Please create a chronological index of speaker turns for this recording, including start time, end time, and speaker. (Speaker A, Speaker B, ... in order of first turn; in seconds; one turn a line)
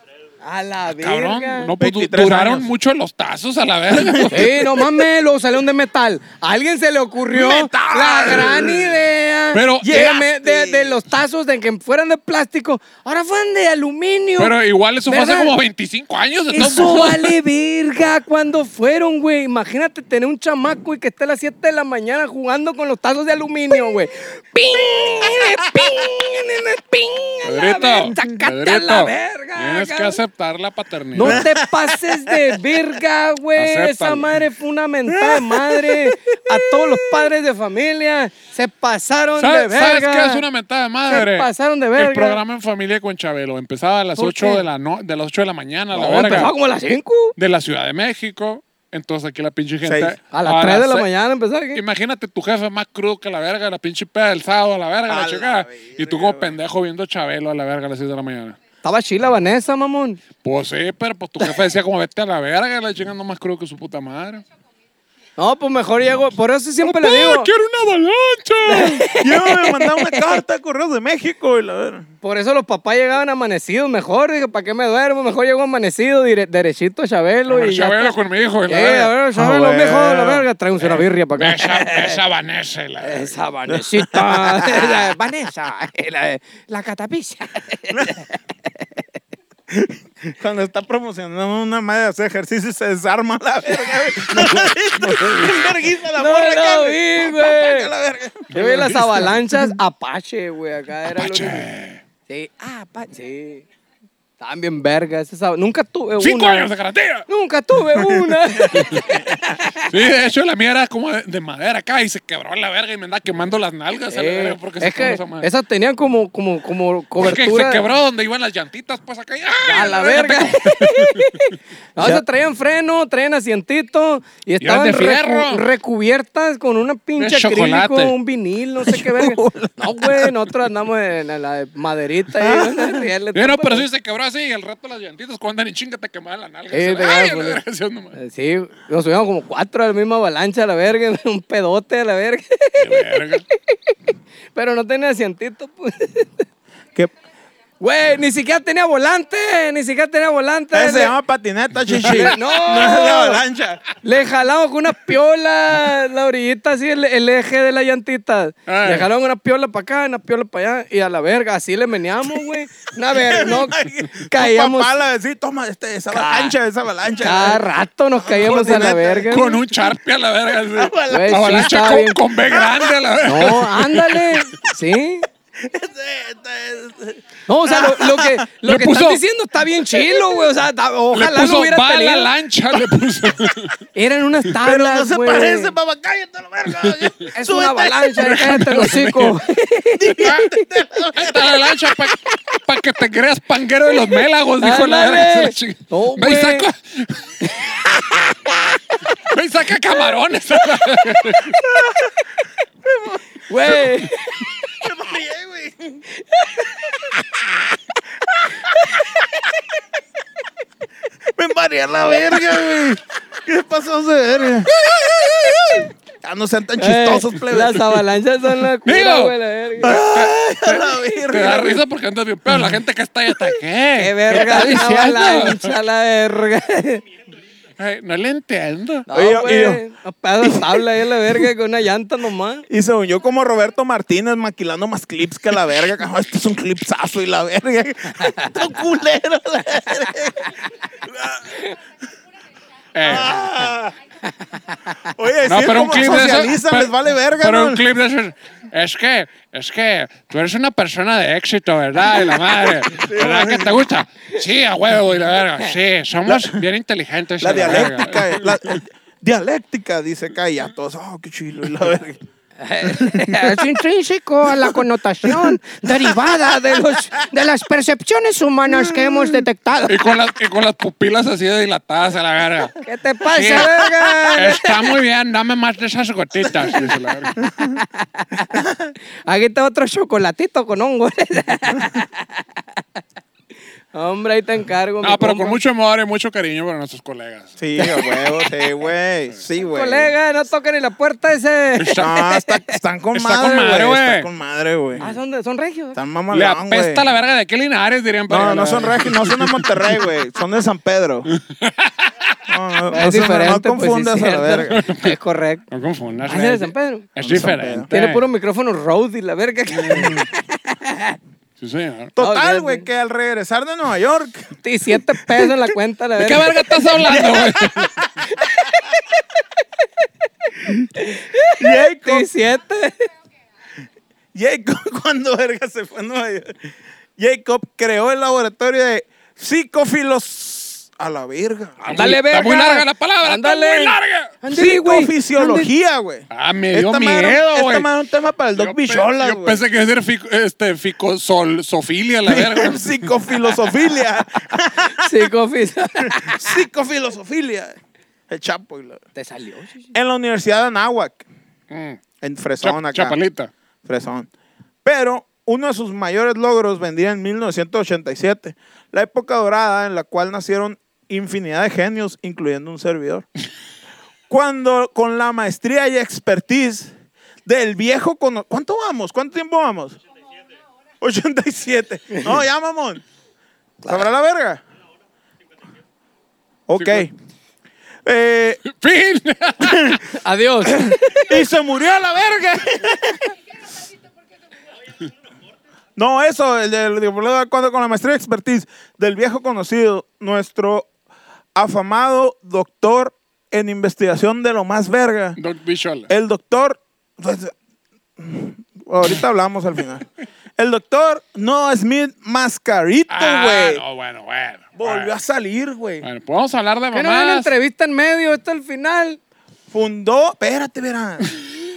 Speaker A: 0.4-1.7
Speaker B: 0.9-4.6
Speaker C: 1.8-2.7
Speaker C: 3.9-4.8
Speaker A: 4.3-14.5
Speaker C: 7.3-8.9
Speaker B: 9.5-10.0
Speaker C: 9.8-11.0
Speaker B: 14.4-17.4
Speaker A: 15.1-15.5
Speaker A: 16.5-30.2
Speaker B: 27.4-31.4
Speaker A: 31.1-40.4
Speaker C: 31.2-32.8
Speaker B: 33.5-34.4
Speaker C: 35.1-37.0
Speaker B: 39.4-46.5
Speaker A: 41.1-42.4
Speaker A: 44.2-44.6
Speaker A: 45.9-47.3
Speaker B: 47.4-51.1
Speaker C: 49.8-50.1
Speaker A: 50.3-51.8
Speaker B: 51.7-58.6
Speaker C: 55.1-56.5
Speaker A: 58.8-60.2
Speaker B: 60.4-64.4
Speaker A: 65.4-67.5
Speaker B: 66.8-69.1
Speaker A: 68.7-70.4
Speaker C: 69.1-72.1
Speaker A: 72.2-78.2
Speaker B: 77.5-79.1
Speaker A: 78.7-82.2
Speaker C: 79.3-80.5
Speaker B: 80.8-83.4
Speaker A: 83.0-88.4
Speaker C: 83.7-85.1
Speaker C: 87.9-88.2
Speaker C: 89.7-98.5
Speaker A: 93.9-95.4
Speaker A: 96.1-97.9
Speaker B: 98.5-99.4
Speaker A: 98.5-101.7
Speaker B: 101.0-102.0
Speaker A: 102.3-103.6
Speaker A: 104.4-106.7
Speaker B: 106.2-107.3
Speaker A: 107.3-109.9
Speaker C: 108.0-109.3
Speaker B: 108.7-109.1
Speaker B: 109.8-115.5
Speaker A: 114.1-117.8
Speaker B: 117.2-121.5
Speaker A: 119.6-133.9
Speaker C: 122.0-122.2
Speaker B: 124.6-125.6
Speaker B: 127.2-128.1
Speaker C: 128.8-130.4
Speaker C: 132.4-133.1
Speaker B: 133.3-138.2
Speaker A: 136.7-137.6
Speaker A: 138.2-146.4
Speaker B: 142.8-143.4
Speaker A: 147.8-151.2
Speaker C: 150.7-153.8
Speaker B: 151.9-152.3
Speaker A: 152.0-153.4
Speaker A: 154.0-164.9
Speaker B: 158.7-159.1
Speaker C: 163.1-167.6
Speaker A: 166.1-166.5
Speaker A: 167.2-169.7
Speaker C: 168.2-169.4
Speaker B: 169.3-174.5
Speaker C: 170.7-171.7
Speaker A: 171.1-172.2
Speaker C: 172.5-173.0
Speaker A: 173.2-175.3
Speaker C: 175.6-178.4
Speaker A: 177.5-182.3
Speaker B: 178.6-179.2
Speaker B: 181.1-183.8
Speaker A: 183.9-185.8
Speaker C: 184.6-188.2
Speaker B: 186.8-187.3
Speaker A: 187.3-190.7
Speaker B: 188.2-189.4
Speaker C: 190.0-191.9
Speaker B: 190.1-190.5
Speaker B: 191.1-197.4
Speaker A: 194.1-196.7
Speaker A: 197.4-199.2
Speaker B: 199.2-201.6
Speaker A: 200.6-201.4
Speaker C: 201.6-202.2
Speaker C: 202.8-206.0
Speaker A: 203.5-204.5
Speaker A: 206.1-207.2
Speaker C: 207.1-207.4
Speaker C: 208.3-209.2
Speaker A: 208.7-209.2
Speaker C: 211.3-218.0
Speaker A: 215.4-215.8
Speaker A: 216.8-220.1
Speaker B: 218.8-225.7
Speaker C: 219.8-221.8
Speaker A: 223.9-227.0
Speaker B: 227.8-229.1
Speaker A: 229.1-232.7
Speaker C: 229.1-229.8
Speaker C: 230.4-230.8
Speaker C: 232.7-241.6
Speaker A: 238.2-238.7
Speaker B: 242.9-243.4
Speaker C: 243.1-243.9
Speaker A: 244.2-245.0
Speaker C: 245.0-247.8
Speaker B: 245.4-258.8
Speaker C: 252.8-253.7
Speaker C: 256.2-256.6
Speaker C: 257.4-262.2
Speaker A: 262.6-270.1
Speaker C: 262.8-263.6
Speaker C: 264.4-267.0
Speaker C: 268.7-269.4
Speaker B: 269.9-272.8
Speaker A: 272.8-274.8
Speaker B: 273.3-273.7
Speaker C: 273.6-274.6
Speaker B: 274.3-277.3
Speaker A: 276.5-278.6
Speaker C: 278.5-278.9
Speaker A: 279.2-282.4
Speaker A: 283.9-285.6
Speaker B: 285.0-287.5
Speaker C: 287.6-290.1
Speaker A: 287.8-288.5
Speaker A: 289.6-292.8
Speaker B: 291.8-292.1
Speaker C: 291.9-295.1
Speaker B: 293.1-294.3
Speaker A: 295.0-296.0
Speaker C: 295.9-297.0
Speaker B: 296.3-300.1
Speaker C: 298.3-301.3
Speaker B: 301.3-302.4
Speaker C: 302.5-304.8
Speaker A: 302.9-305.6
Speaker B: 304.7-305.2
Speaker B: 305.7-308.2
Speaker A: 306.3-307.1
Speaker C: 307.2-307.9
Speaker A: 307.9-311.2
Speaker B: 309.7-310.3
Speaker B: 311.6-312.1
Speaker C: 312.1-315.6
Speaker A: 312.2-312.9
Speaker A: 314.6-316.8
Speaker B: 316.2-317.9
Speaker C: 317.1-318.9
Speaker A: 318.3-319.2
Speaker A: 320.0-323.1
Speaker C: 320.6-320.9
Speaker C: 321.6-322.3
Speaker C: 324.3-331.8
Speaker A: 331.8-335.7
Speaker B: 331.9-334.4
Speaker C: 334.5-339.6
Speaker B: 336.3-337.9
Speaker B: 338.5-343.6
Speaker C: 342.3-345.3
Speaker A: 344.8-346.6
Speaker C: 346.0-347.8
Speaker C: 348.3-349.0
Speaker A: 349.1-349.9
Speaker C: 349.9-351.2
Speaker B: 351.7-352.0
Speaker C: 352.2-353.2
Speaker B: 352.6-353.5
Speaker C: 353.8-354.3
Speaker C: 354.8-363.2
Speaker C: 364.3-370.0
Speaker C: 371.0-373.0
Speaker A: 372.1-372.4
Speaker C: 373.8-374.6
Speaker C: 376.7-377.1
Speaker B: 376.8-377.1
Speaker C: 378.0-378.6
Speaker B: 378.6-380.0
Speaker C: 379.6-380.0
Speaker A: 380.1-381.4
Speaker C: 380.6-383.3
Speaker C: 385.9-390.9
Speaker C: 391.5-395.4
Speaker B: 395.4-396.1
Speaker C: 396.1-397.5
Speaker C: 398.2-400.0
Speaker C: 400.6-403.8
Speaker B: 403.1-405.1
Speaker C: 404.8-406.0
Speaker B: 406.0-407.5
Speaker A: 406.9-409.2
Speaker C: 409.7-411.5